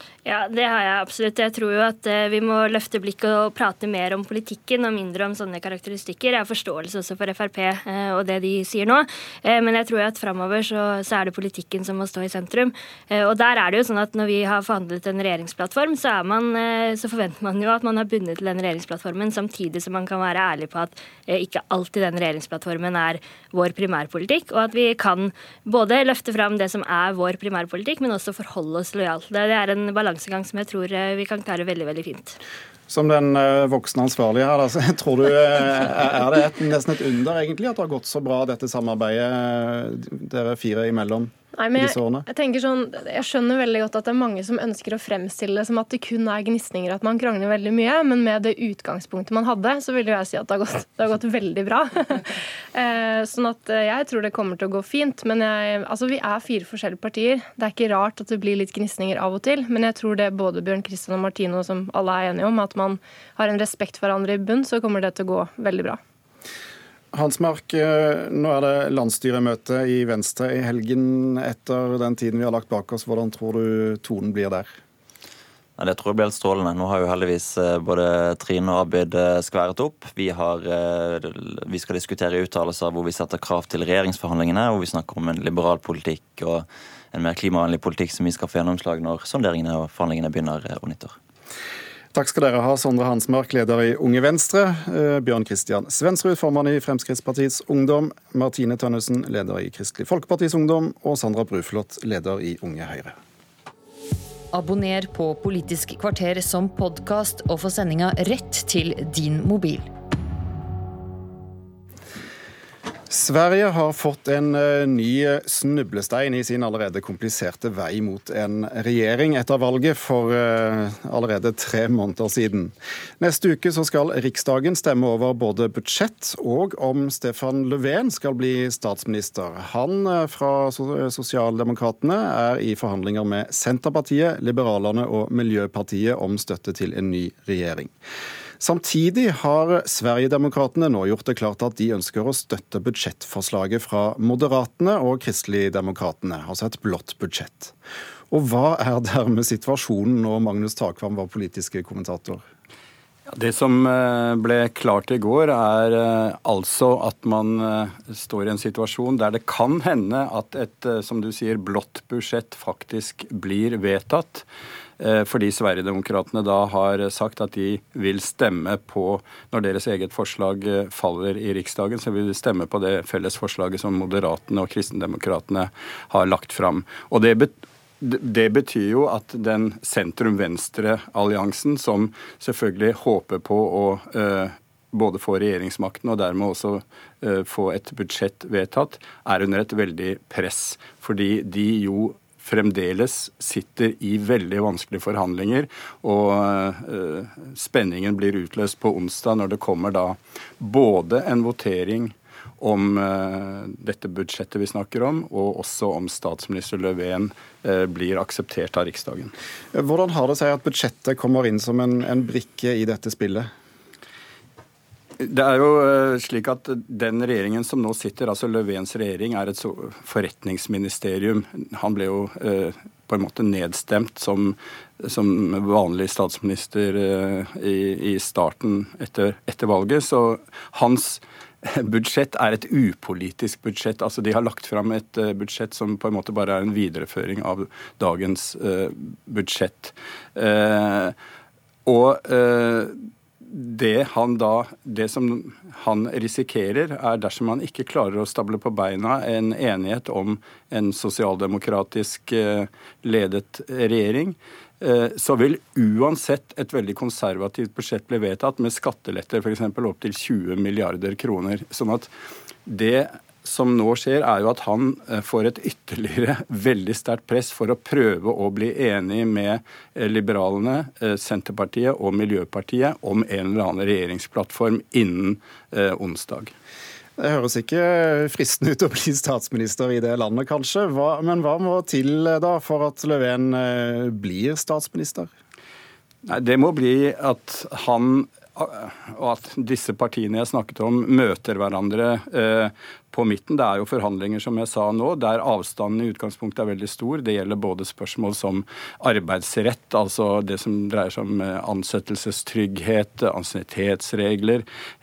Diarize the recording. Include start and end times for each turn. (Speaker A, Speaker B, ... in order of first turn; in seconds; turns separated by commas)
Speaker A: 0.3-32.3, Speaker B: 32.9-42.3, Speaker C: 41.5-66.0, Speaker B: 67.1-74.7, Speaker D: 75.8-91.1, Speaker B: 92.1-103.2, Speaker E: 104.5-109.9, Speaker B: 113.1-137.9, Speaker B: 138.6-147.7, Speaker B: 148.3-152.4, Speaker F: 153.3-164.4, Speaker F: 165.0-209.3, Speaker B: 209.7-213.5, Speaker F: 215.2-241.1, Speaker F: 241.8-262.1, Speaker F: 262.6-276.5, Speaker B: 277.2-285.3, Speaker F: 286.2-304.6